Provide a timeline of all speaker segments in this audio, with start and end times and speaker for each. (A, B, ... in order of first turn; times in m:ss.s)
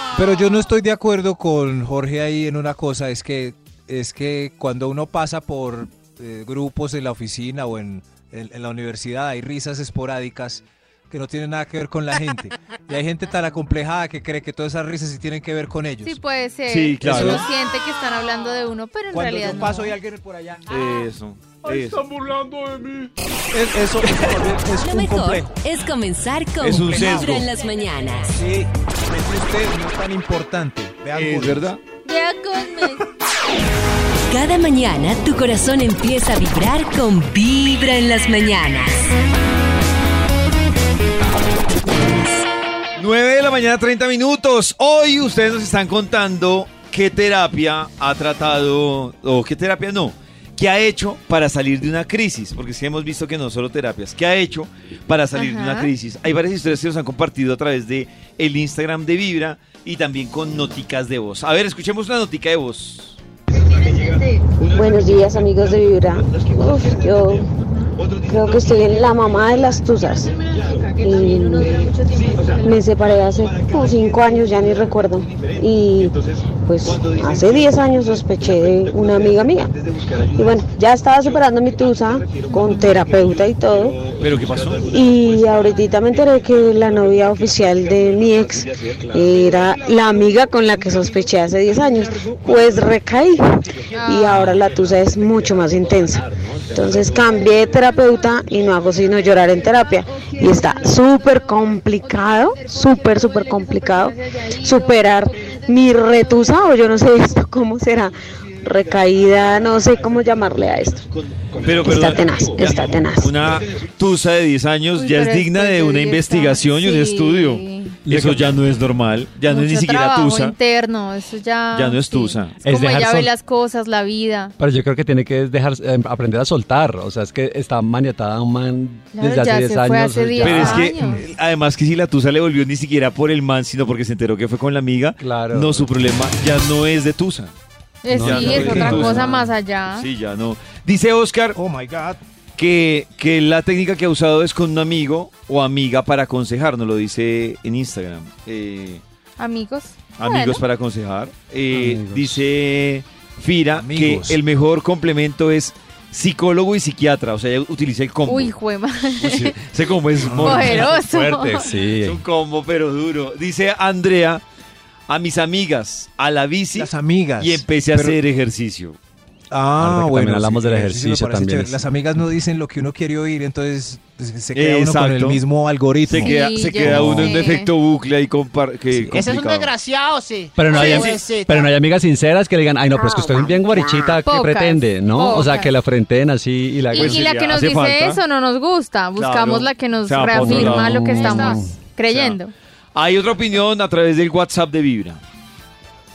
0:00.1-0:16.2 A
0:16.0-0:20.0 B
0:16.7-0:17.5 C
0:17.0-0:17.5 A
0:19.1-0:20.6 A
0:20.7-0:22.1 C
0:21.6-0:22.8 A
0:23.5-0:25.6 A
0:24.8-0:28.4 D
0:26.6-0:27.5 C
0:26.6-0:27.5 A
0:28.3-0:31.7 A
0:31.1-0:31.8 C
0:32.0-0:33.0 B
0:34.3-0:39.1 D
0:43.0-1:03.2 C
0:55.3-0:55.9 B
1:04.7-1:07.5 E
1:08.3-1:10.4 E
1:11.0-1:19.7 E
1:20.4-1:24.1 E
1:24.2-1:24.9 C
1:24.8-1:51.1 E
1:33.9-1:34.5 B
1:34.3-1:34.6 C
1:43.8-1:45.0 B
1:51.6-2:00.6 C
1:51.8-1:53.3 E
1:54.9-1:58.0 B
1:58.1-1:58.6 F
1:59.5-2:04.5 B
2:01.7-2:02.6 C
2:02.6-2:03.3 F
2:04.6-2:10.9 F
2:09.1-2:11.2 B
2:10.4-2:17.5 C
2:15.2-2:15.9 F
2:18.0-2:20.1 B
2:18.1-2:21.6 C
2:18.2-2:19.0 F
2:18.3-2:19.3 A
2:21.6-2:22.2 A
2:22.6-2:29.0 C
2:29.4-2:30.6 B
2:30.2-2:38.6 C
2:31.7-2:32.4 F
2:33.7-2:34.4 A
2:38.3-2:39.6 B
2:39.2-2:40.9 C
2:40.3-2:40.6 A
2:40.4-2:41.8 B
2:40.4-2:42.2 F
2:42.0-2:44.4 C
2:45.1-2:49.0 C
2:46.8-2:48.2 A
2:49.5-2:56.3 A
2:49.8-2:51.8 F
2:54.5-2:55.4 C
2:56.1-2:59.7 C
2:56.1-2:57.7 B
2:56.8-2:57.4 F
2:59.1-3:01.7 G
3:00.6-3:07.3 F
3:00.7-3:01.2 C
3:00.8-3:01.2 B
3:03.0-3:04.2 E
3:04.2-3:05.7 B
3:06.9-3:12.5 B
3:06.9-3:08.2 C
3:09.2-3:12.4 C
3:10.4-3:11.7 F
3:13.0-3:15.2 C